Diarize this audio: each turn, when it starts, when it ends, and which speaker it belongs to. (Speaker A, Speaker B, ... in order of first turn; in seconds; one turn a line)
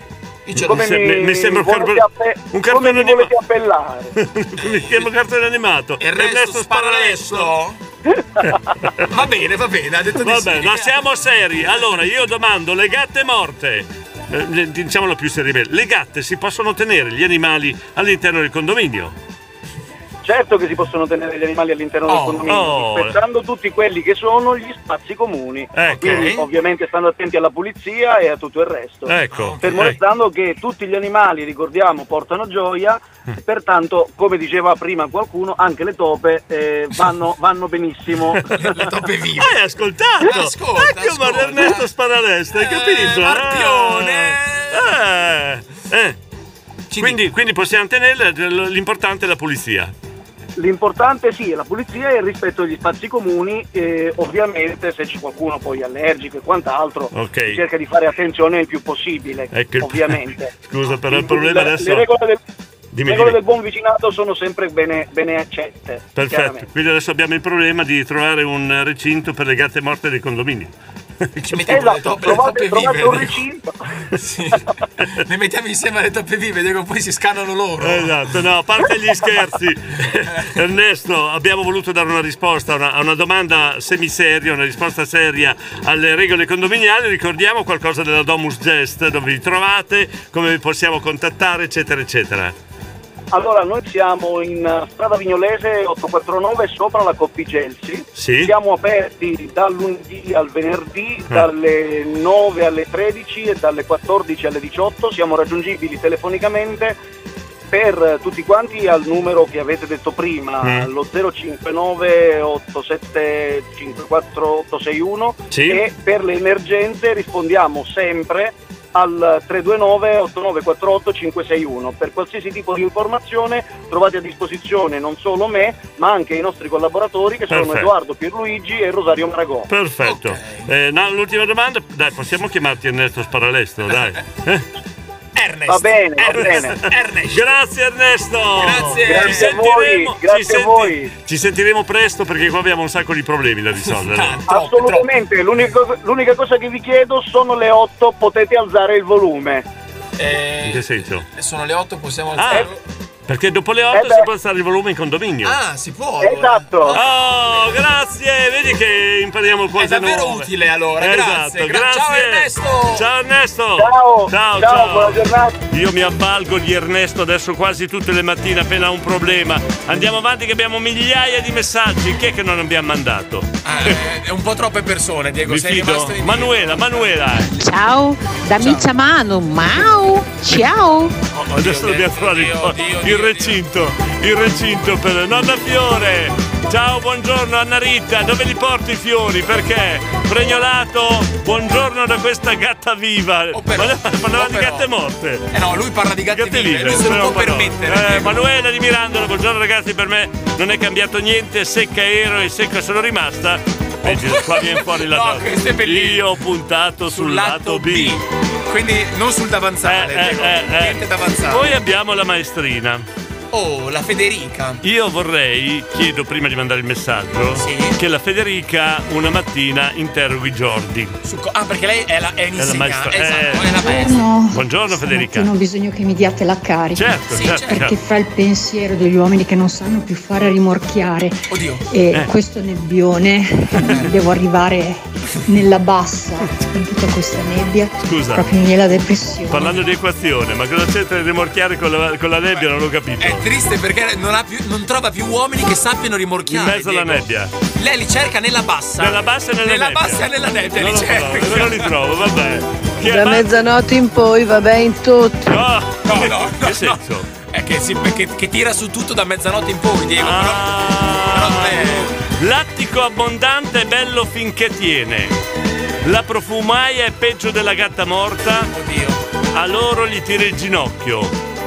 Speaker A: 0.5-0.9
Speaker B: 0.6-3.3
Speaker C: 0.6-4.1
Speaker B: 4.2-7.5
Speaker A: 4.6-5.1
Speaker A: 6.0-7.8
Speaker B: 8.4-9.1
Speaker A: 9.1-11.0
Speaker B: 10.2-19.1
Speaker C: 20.2-38.4
Speaker A: 22.1-22.5
Speaker B: 22.4-23.2
Speaker B: 25.7-26.4
Speaker A: 25.9-26.4
Speaker B: 29.1-30.0
Speaker A: 29.3-29.9
Speaker A: 38.6-39.6
Speaker B: 39.4-46.2
Speaker A: 40.2-41.9
Speaker A: 42.5-44.8
Speaker A: 46.9-47.2
Speaker B: 47.0-49.9
Speaker C: 50.6-60.5
Speaker B: 57.1-57.6
Speaker B: 59.5-62.1
Speaker C: 61.1-62.4
Speaker B: 62.9-63.4
Speaker C: 63.1-66.7
Speaker B: 66.1-70.7
Speaker A: 71.4-73.4
Speaker C: 71.7-73.7
Speaker A: 74.2-74.6
Speaker A: 75.2-78.2
Speaker B: 77.8-92.5
Speaker C: 93.3-107.0
Speaker B: 98.2-98.5
Speaker C: 107.7-129.7
Speaker B: 110.6-110.9
Speaker B: 115.5-115.8
Speaker B: 127.5-127.9
Speaker B: 129.7-134.6
Speaker A: 130.0-130.7
Speaker A: 135.4-137.4
Speaker C: 135.7-136.8
Speaker B: 136.3-136.7
Speaker B: 137.3-144.4
Speaker A: 138.6-139.6
Speaker C: 139.1-141.1
Speaker A: 143.8-145.1
Speaker C: 144.5-149.7
Speaker A: 150.2-152.8
Speaker B: 150.7-151.2
Speaker B: 152.4-152.7
Speaker B: 153.3-155.6
Speaker C: 153.9-154.2
Speaker A: 155.4-157.7
Speaker C: 156.2-157.0
Speaker B: 156.9-160.5
Speaker A: 159.8-163.1
Speaker B: 161.0-174.0
Speaker C: 163.8-165.6
Speaker A: 173.7-177.3
Speaker B: 175.5-177.5
Speaker D: 177.6-181.1
Speaker A: 181.3-183.6
Speaker B: 181.6-195.5
Speaker A: 193.5-194.9
Speaker A: 195.5-198.4
Speaker B: 196.3-208.2
Speaker A: 204.0-206.3
Speaker A: 207.1-211.7
Speaker B: 209.9-211.0
Speaker B: 211.5-213.1
Speaker A: 213.5-214.8
Speaker B: 214.8-221.1
Speaker A: 217.6-218.0
Speaker A: 221.2-224.3
Speaker B: 222.6-223.8
Speaker E: 223.8-224.5
Speaker B: 224.5-225.5
Speaker E: 225.1-227.0
Speaker B: 226.9-228.0
Speaker A: 227.3-227.8
Speaker E: 227.8-231.3
Speaker A: 231.5-231.9
Speaker E: 231.9-233.5
Speaker E: 234.0-235.0
Speaker E: 235.5-239.6
Speaker B: 238.0-238.5
Speaker B: 239.5-243.4
Speaker A: 242.5-251.9
Speaker B: 246.5-247.5
Speaker B: 249.0-250.2
Speaker B: 250.8-253.6
Speaker F: 253.0-255.5
Speaker B: 255.5-257.3
Speaker A: 256.1-262.1
Speaker B: 260.2-265.4
Speaker B: 266.0-268.7
Speaker A: 268.7-269.2
Speaker B: 269.5-271.3